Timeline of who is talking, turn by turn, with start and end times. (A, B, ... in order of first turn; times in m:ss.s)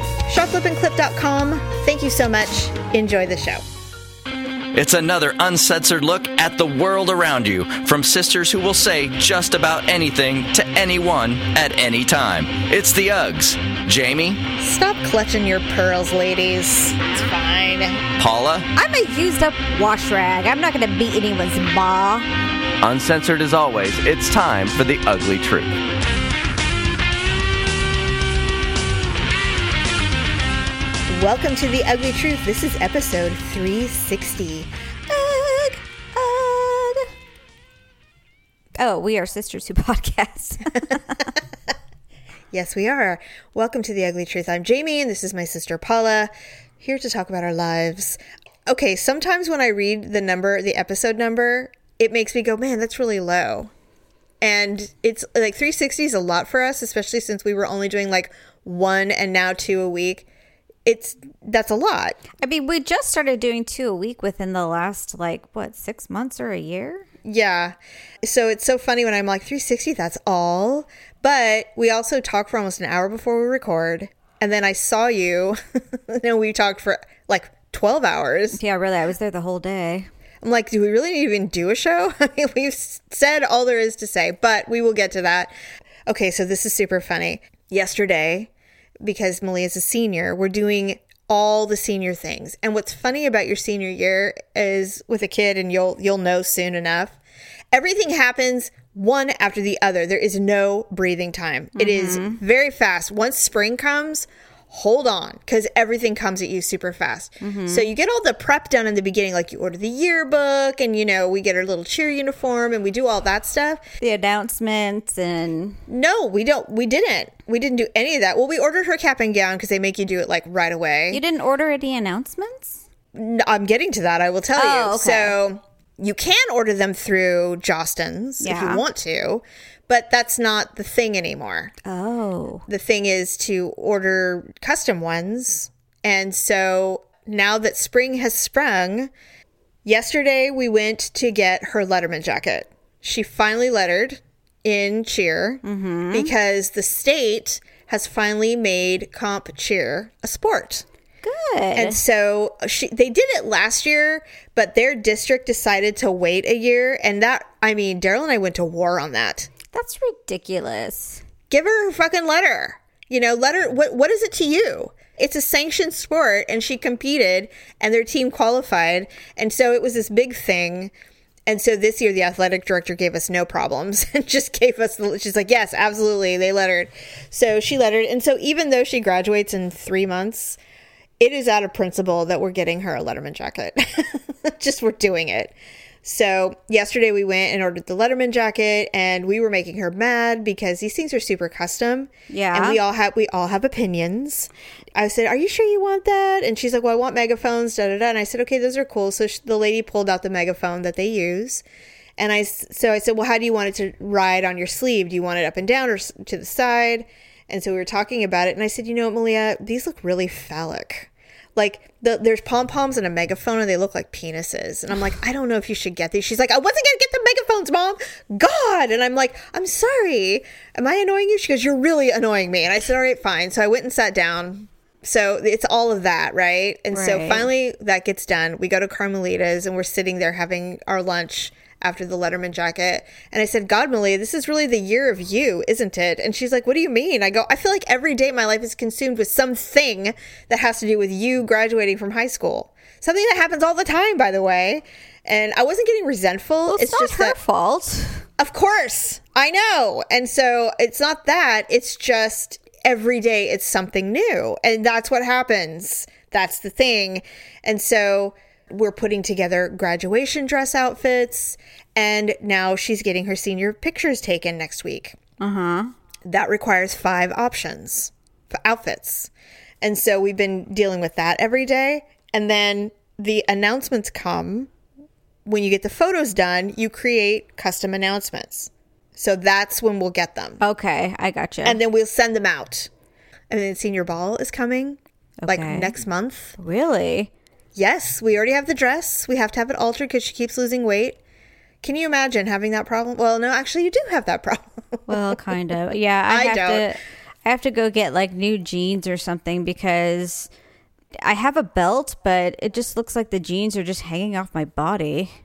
0:00.3-0:03.6 A
0:04.7-0:14.4 B
0:14.6-0:18.0 A
0:18.2-0:18.7 B
0:18.7-0:22.3 C
0:22.8-0:25.8 B
0:31.1-0:34.7 A
0:35.1-0:37.1 C
0:38.8-0:41.2 C
0:42.5-0:53.7 A
0:54.4-1:00.3 A
1:00.8-1:02.2 A
1:02.4-1:07.1 C
1:07.2-1:18.6 A
1:18.6-1:20.1 C
1:20.4-1:25.5 A
1:26.1-1:28.5 A
1:29.0-1:37.2 A
1:37.7-1:53.8 A
1:41.8-1:42.4 C
1:47.4-1:47.9 C
1:54.0-1:55.8 C
1:55.9-2:01.2 A
2:01.1-2:02.8 C
2:03.1-2:11.8 A
2:04.6-2:05.4 C
2:08.4-2:08.8 C
2:11.8-2:12.7 C
2:12.7-2:19.1 A
2:19.8-2:30.8 A
2:25.6-2:26.3 C
2:31.2-2:32.0 C
2:31.8-2:39.5 A
2:39.7-2:41.2 C
2:41.5-2:50.9 A
2:51.5-3:00.6 A
3:01.2-3:21.6 A
3:12.3-3:12.8 C
3:22.2-4:07.4 A
3:46.9-3:47.5 C
4:06.7-4:08.2 C
4:08.4-4:25.2 A
4:25.4-4:25.9 C
4:26.3-4:29.3 A
4:29.8-4:34.7 A
4:35.5-4:40.6 A
4:40.6-4:41.8 C
4:41.6-4:42.9 A
4:43.5-4:46.6 A
4:45.4-4:45.9 C
4:46.6-4:47.3 C
4:47.8-4:51.2 A
4:51.8-4:55.2 A
4:55.1-5:00.5 C
4:56.3-4:56.9 A
5:01.2-5:05.4 C